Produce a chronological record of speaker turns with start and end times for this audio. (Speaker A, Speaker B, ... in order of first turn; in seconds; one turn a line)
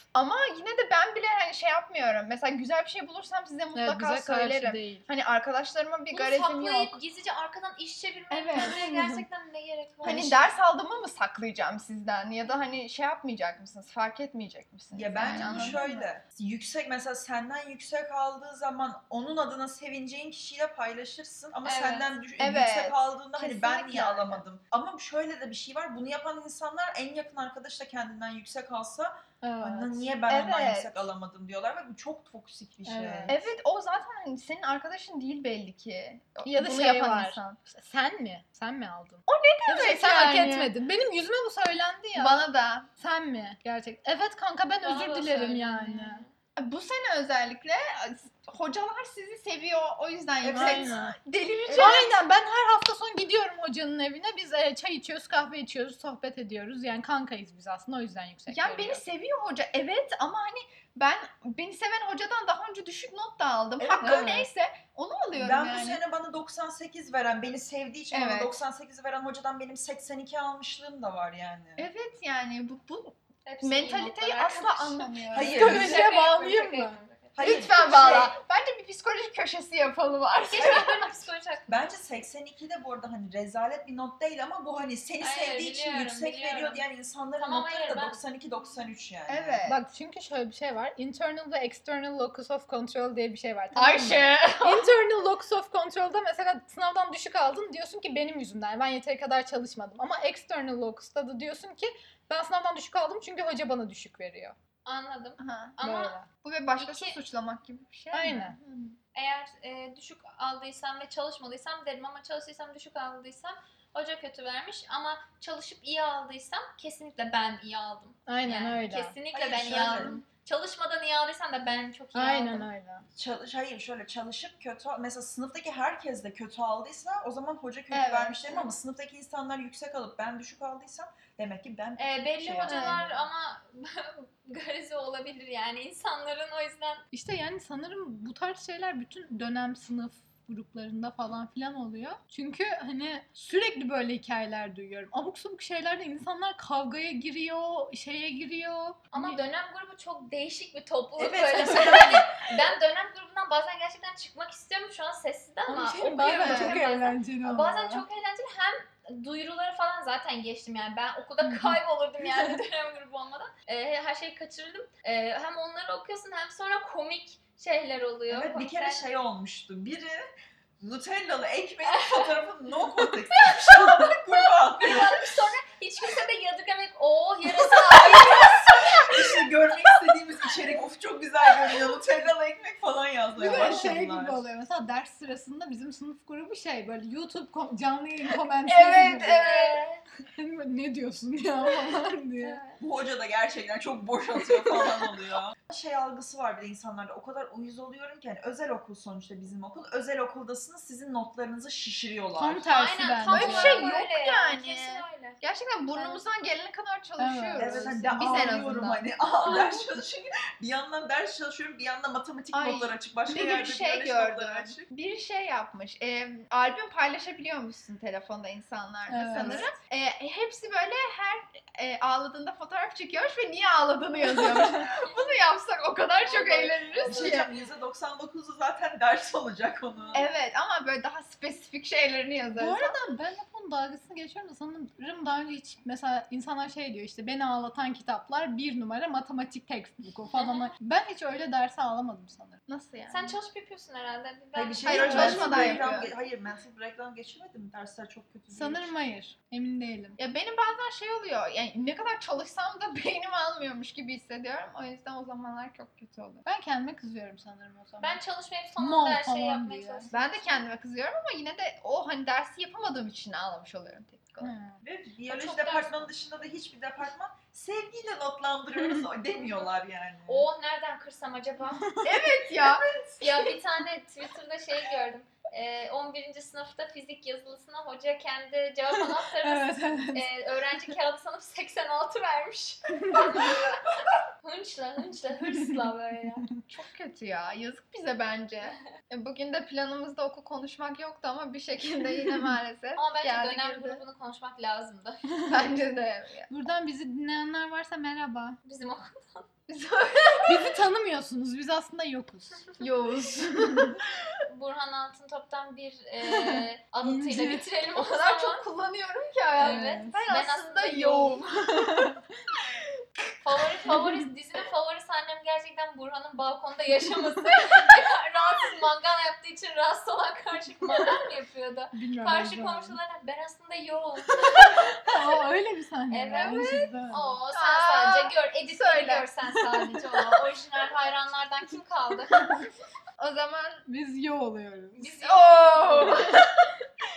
Speaker A: 0.1-7.0
Speaker B: 3.8-5.0
Speaker C: 6.1-10.5
Speaker A: 8.3-9.1
Speaker B: 8.6-9.2
Speaker D: 10.0-10.4
Speaker A: 10.0-16.1
Speaker D: 14.9-33.4
Speaker B: 15.2-15.8
Speaker C: 21.6-22.1
Speaker A: 22.4-24.4
Speaker B: 29.4-30.1
Speaker A: 30.3-31.0
Speaker B: 32.9-33.5
Speaker A: 33.3-37.6
Speaker B: 36.5-42.4
Speaker A: 39.3-40.7
Speaker A: 42.2-42.9
Speaker B: 43.0-46.2
Speaker C: 44.8-46.3
Speaker A: 46.6-52.2
Speaker D: 50.4-51.0
Speaker B: 50.5-51.2
Speaker C: 51.7-52.0
Speaker B: 51.8-59.0
Speaker A: 58.5-66.0
Speaker D: 63.8-64.5
Speaker D: 65.4-71.9
Speaker A: 68.1-68.6
Speaker A: 71.8-75.6
Speaker C: 73.5-77.4
Speaker D: 75.3-76.1
Speaker B: 75.5-77.0
Speaker D: 77.3-78.3
Speaker A: 77.4-81.2
Speaker C: 80.5-82.0
Speaker D: 81.7-89.7
Speaker C: 85.2-86.8
Speaker C: 87.4-88.2
Speaker A: 89.3-89.8
Speaker B: 89.7-104.6
Speaker A: 93.7-94.9
Speaker C: 104.9-106.2
Speaker A: 105.4-105.8
Speaker B: 105.8-106.3
Speaker A: 106.4-109.0
Speaker C: 106.8-107.2
Speaker B: 108.1-108.6
Speaker C: 109.1-122.7
Speaker B: 118.3-119.1
Speaker D: 119.3-120.2
Speaker A: 119.9-120.2
Speaker B: 122.2-123.1
Speaker D: 123.2-133.1
Speaker A: 127.9-128.6
Speaker C: 132.0-137.1
Speaker B: 132.6-133.1
Speaker B: 137.1-149.4
Speaker C: 149.1-169.1
Speaker D: 151.2-152.3
Speaker B: 151.7-152.1
Speaker B: 155.7-158.1
Speaker A: 156.4-156.8
Speaker B: 161.4-162.6
Speaker D: 168.3-170.3
Speaker D: 170.8-175.3
Speaker C: 171.9-172.3
Speaker C: 173.3-179.4
Speaker D: 177.7-184.4
Speaker B: 183.4-189.4
Speaker A: 188.7-189.8
Speaker C: 189.2-190.0
Speaker B: 190.3-192.6
Speaker C: 192.4-192.8
Speaker D: 192.8-202.7
Speaker B: 194.7-195.1
Speaker B: 202.4-203.9
Speaker C: 202.7-205.4
Speaker A: 203.3-209.0
Speaker B: 207.2-207.9
Speaker D: 207.6-214.9
Speaker C: 209.4-209.8
Speaker A: 212.5-227.5
Speaker B: 219.1-219.7
Speaker C: 224.9-225.3
Speaker C: 226.2-227.4
Speaker D: 227.0-230.3
Speaker A: 230.1-233.0
Speaker B: 232.6-242.6
Speaker C: 240.3-240.7
Speaker A: 242.7-243.4
Speaker C: 243.1-245.6
Speaker D: 244.6-248.9
Speaker A: 244.8-246.1
Speaker B: 245.1-245.8
Speaker B: 248.5-250.2
Speaker A: 250.2-256.4
Speaker B: 256.4-258.2
Speaker C: 258.0-260.6
Speaker B: 258.8-260.1
Speaker A: 260.1-264.5
Speaker B: 264.4-264.8
Speaker D: 264.8-270.5
Speaker C: 265.3-266.1
Speaker C: 269.4-269.7
Speaker C: 270.3-271.9
Speaker B: 271.8-272.3
Speaker A: 272.0-272.9
Speaker C: 273.2-286.5
Speaker B: 278.9-280.3
Speaker A: 286.7-294.0
Speaker C: 293.0-295.3
Speaker A: 295.5-296.5
Speaker B: 296.5-298.6
Speaker C: 298.6-299.5
Speaker A: 299.7-300.8
Speaker B: 300.5-302.7
Speaker A: 302.8-304.1
Speaker C: 304.5-308.7
Speaker B: 306.2-307.6
Speaker A: 307.9-312.1
Speaker C: 309.6-311.4
Speaker B: 309.6-310.1
Speaker B: 311.8-312.2
Speaker C: 313.4-325.1
Speaker B: 321.9-323.0
Speaker B: 324.6-327.4
Speaker C: 326.1-332.6
Speaker A: 327.5-329.3
Speaker A: 333.2-333.9
Speaker B: 333.9-335.1
Speaker C: 335.0-336.2
Speaker A: 335.2-336.5